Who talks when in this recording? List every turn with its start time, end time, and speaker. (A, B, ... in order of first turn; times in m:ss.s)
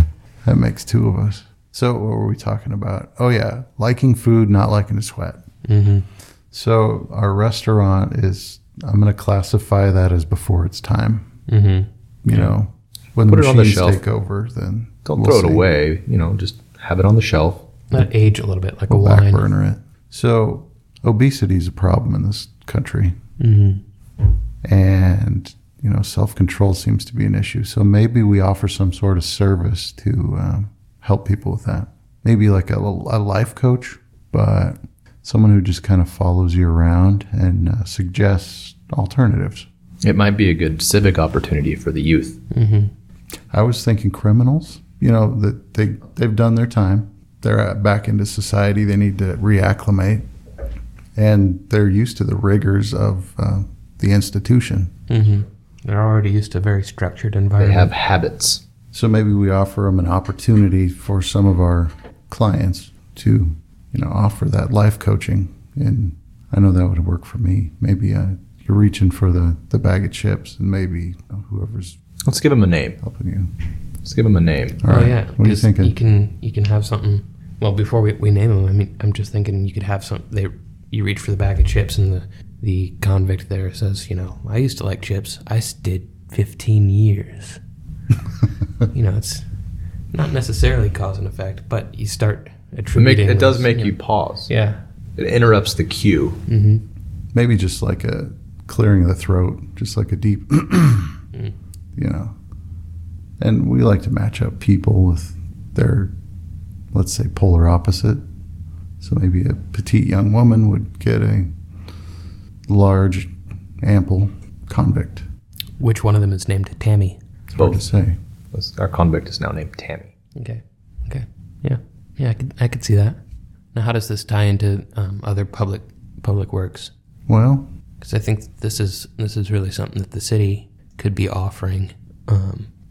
0:00.4-0:05.4 A
0:05.6-0:06.1 B
0:06.5-0:11.3 A
0:11.5-0:12.5 B
0:12.2-0:15.6 A
0:13.3-0:14.0 C
0:15.0-0:17.6 C
0:17.9-0:19.4 B
0:18.9-0:23.2 A
0:23.4-0:23.8 B
0:24.6-0:39.7 A
0:40.0-0:42.4 C
0:42.5-0:42.9 B
0:43.5-0:50.2 A
0:51.2-0:54.9 A
0:55.1-0:57.9 B
0:57.6-0:58.6 C
0:58.9-1:12.0 A
1:12.2-1:13.0 C
1:13.0-1:13.5 A
1:14.0-1:14.8 C
1:14.8-1:15.9 A
1:14.9-1:27.6 B
1:28.9-1:29.4 B
1:30.1-1:34.0 B
1:33.0-1:34.5 C
1:34.5-1:34.8 B
1:35.2-1:36.4 C
1:36.5-1:36.8 B
1:37.3-1:41.2 A
1:42.0-1:42.3 A
1:43.4-1:46.1 A
1:46.9-1:48.2 A
1:49.0-1:51.6 A
1:52.7-1:55.2 A
1:55.8-1:57.2 B
1:57.5-1:58.2 A
1:57.6-1:57.8 C
1:58.5-2:00.1 C
2:00.4-2:03.2 B
2:03.7-2:06.9 B
2:07.3-2:07.6 A
2:08.0-2:12.7 B